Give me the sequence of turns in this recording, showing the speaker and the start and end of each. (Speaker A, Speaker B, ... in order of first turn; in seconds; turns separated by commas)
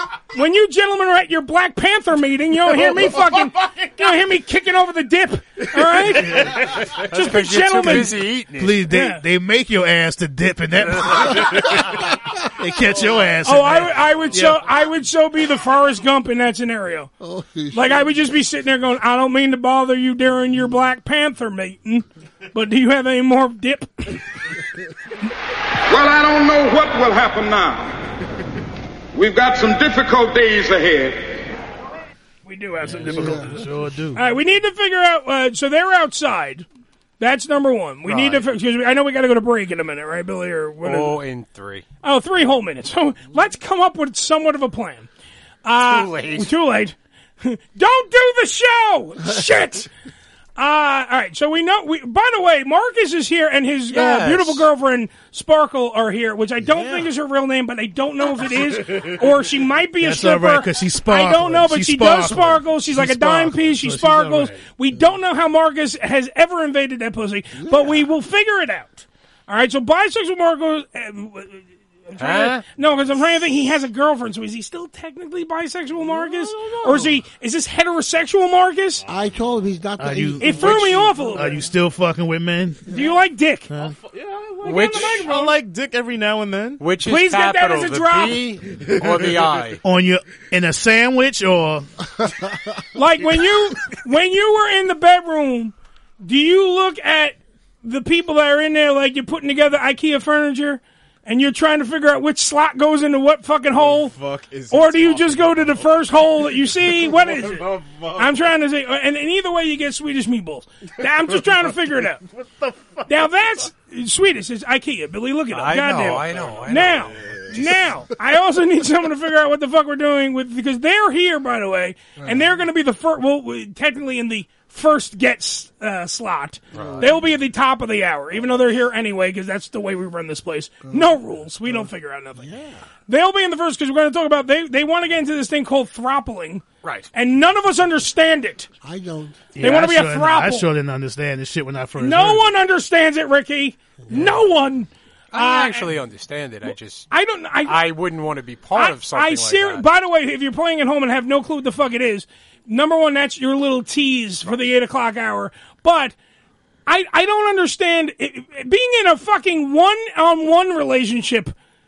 Speaker A: 0.3-6.5, Speaker B: 7.0-8.8, Speaker A: 7.1-8.2, Speaker C: 8.6-14.6, Speaker A: 8.9-9.2, Speaker A: 13.4-17.1, Speaker D: 17.2-18.2, Speaker A: 17.7-24.2, Speaker E: 25.9-27.9, Speaker E: 29.1-31.4, Speaker A: 32.5-33.5, Speaker C: 32.9-34.2, Speaker D: 33.1-33.6, Speaker A: 34.1-36.7, Speaker A: 37.2-41.1, Speaker B: 40.8-41.9, Speaker A: 42.0-45.1, Speaker A: 45.6-49.9, Speaker B: 45.8-46.5, Speaker A: 50.6-79.0, Speaker B: 53.9-54.7, Speaker C: 60.0-64.6, Speaker D: 67.6-68.1, Speaker B: 72.2-72.6, Speaker F: 76.1-77.1, Speaker D: 79.1-81.5, Speaker C: 80.0-82.9, Speaker A: 80.4-81.6, Speaker A: 82.9-83.7, Speaker C: 83.7-84.0, Speaker F: 83.8-86.8, Speaker B: 84.6-85.2, Speaker A: 84.6-85.5, Speaker B: 86.8-89.8, Speaker A: 87.0-88.4, Speaker C: 89.8-91.9, Speaker A: 93.0-104.2, Speaker F: 103.7-106.1, Speaker A: 104.7-112.2, Speaker F: 107.0-108.3, Speaker F: 112.5-112.8, Speaker A: 113.1-132.5, Speaker B: 115.5-117.2, Speaker F: 116.4-117.6, Speaker D: 122.2-122.6, Speaker B: 126.7-127.0, Speaker D: 126.8-127.3, Speaker D: 130.9-132.8, Speaker A: 133.1-138.7, Speaker B: 136.8-137.1, Speaker D: 138.8-139.4, Speaker C: 139.6-142.5, Speaker A: 139.6-140.7, Speaker A: 142.0-145.9, Speaker B: 145.3-147.1, Speaker A: 146.7-147.8, Speaker B: 147.6-149.9, Speaker A: 148.8-156.2, Speaker A: 156.9-161.5